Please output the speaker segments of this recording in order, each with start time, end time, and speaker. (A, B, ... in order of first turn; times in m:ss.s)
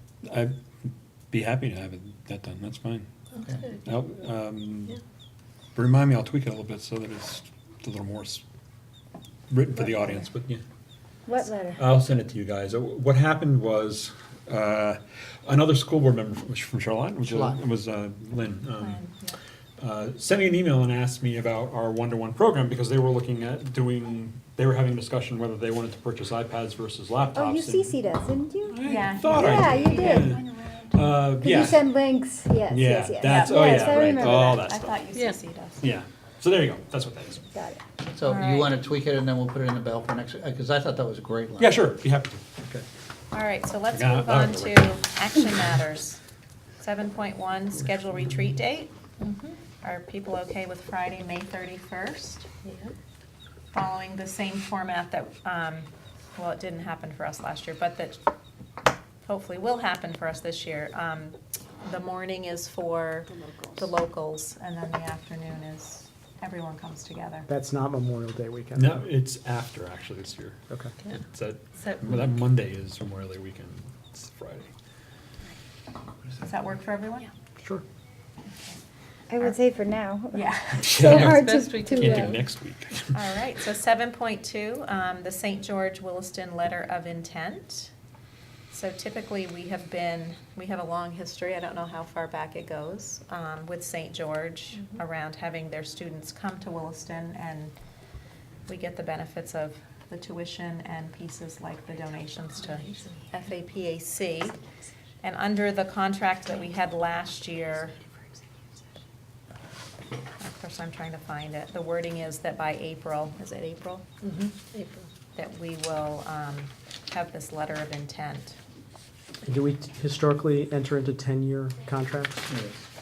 0:00.2-0:03.1 A
0:03.4-0:03.6 B
0:03.4-0:03.8 C
0:03.8-0:05.0 A
0:05.7-0:08.4 A
0:09.5-0:10.6 A
0:11.2-0:11.8 D
0:11.7-0:19.0 A
0:17.2-0:17.6 B
0:18.8-0:19.4 E
0:19.8-0:27.9 A
0:27.3-0:34.6 D
0:28.7-0:31.9 A
0:28.8-0:30.4 E
0:32.7-0:35.0 A
0:33.2-0:35.8 E
0:35.1-0:35.4 C
0:35.8-0:37.5 A
0:37.5-0:37.8 D
0:38.1-0:41.8 B
0:38.2-0:38.7 E
0:41.6-0:42.8 A
0:43.3-0:46.2 E
0:43.9-0:44.9 A
0:46.8-0:52.5 E
0:52.6-0:52.9 C
0:53.7-0:58.2 E
0:59.2-1:07.5 E
1:03.3-1:03.8 C
1:07.5-1:09.1 F
1:08.8-1:10.6 A
1:10.7-1:10.9 F
1:11.3-1:14.7 A
1:11.8-1:12.1 C
1:16.4-1:17.3 E
1:19.3-1:22.3 D
1:20.3-1:21.1 E
1:20.8-1:23.2 A
1:21.4-1:22.4 C
1:23.1-1:27.9 E
1:28.7-1:37.7 E
1:38.7-1:44.6 E
1:42.7-1:43.1 C
1:45.2-1:48.0 E
1:50.4-1:54.0 E
1:54.2-1:55.0 C
1:55.4-1:58.6 E
1:59.4-2:02.5 F
2:02.5-2:02.8 B